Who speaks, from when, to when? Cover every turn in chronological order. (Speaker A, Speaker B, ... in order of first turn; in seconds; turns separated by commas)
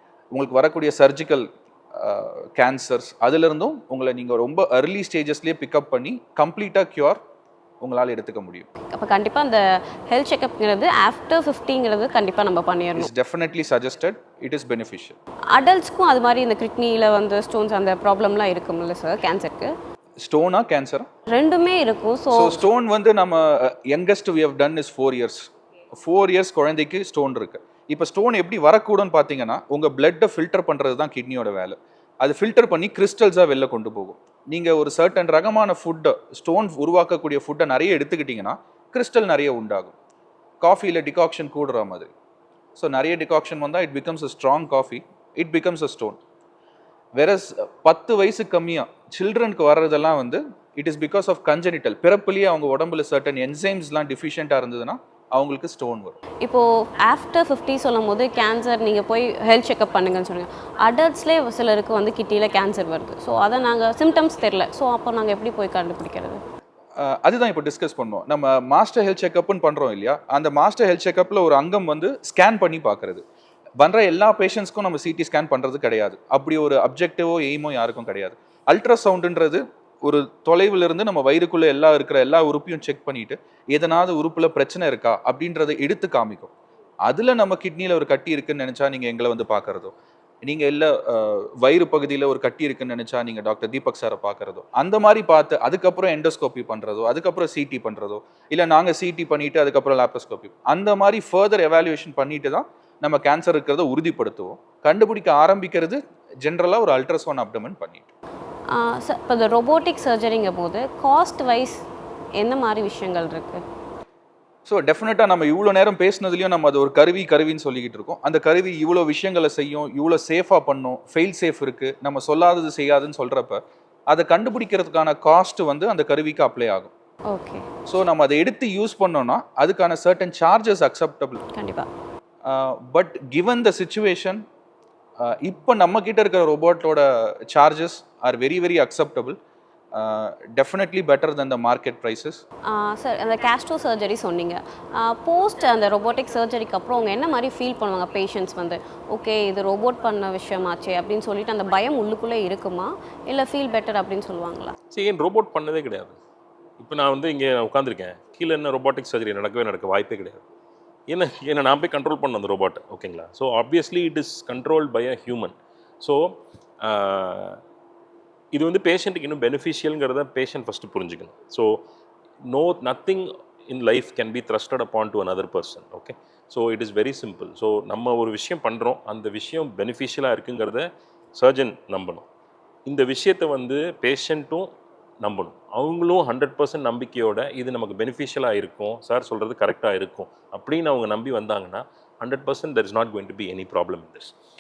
Speaker A: 0.3-7.2, Speaker A: 7.8-8.7, Speaker B: 8.9-13.1, Speaker A: 13.0-15.2, Speaker B: 15.5-19.7, Speaker A: 20.2-21.1, Speaker B: 21.3-22.6, Speaker A: 22.3-25.4, Speaker A: 26.0-40.0, Speaker A: 40.6-42.1, Speaker A: 42.8-46.2, Speaker A: 47.2-56.2, Speaker B: 56.4-66.4, Speaker A: 67.0-73.2, Speaker A: 73.8-86.5, Speaker A: 87.0-108.1, Speaker B: 108.7-111.8, Speaker B: 112.4-113.6, Speaker A: 114.7-126.9, Speaker B: 127.3-127.7, Speaker A: 127.9-131.4, Speaker B: 131.5-131.9, Speaker A: 132.4-134.4, Speaker A: 135.2-139.4, Speaker A: 139.9-142.4, Speaker B: 142.7-154.8, Speaker C: 154.9-156.2, Speaker C: 156.8-160.4, Speaker C: 161.1-167.6, Speaker C: 168.5-171.8, Speaker C: 172.5-182.3, Speaker C: 182.9-184.7, Speaker C: 185.2-194.3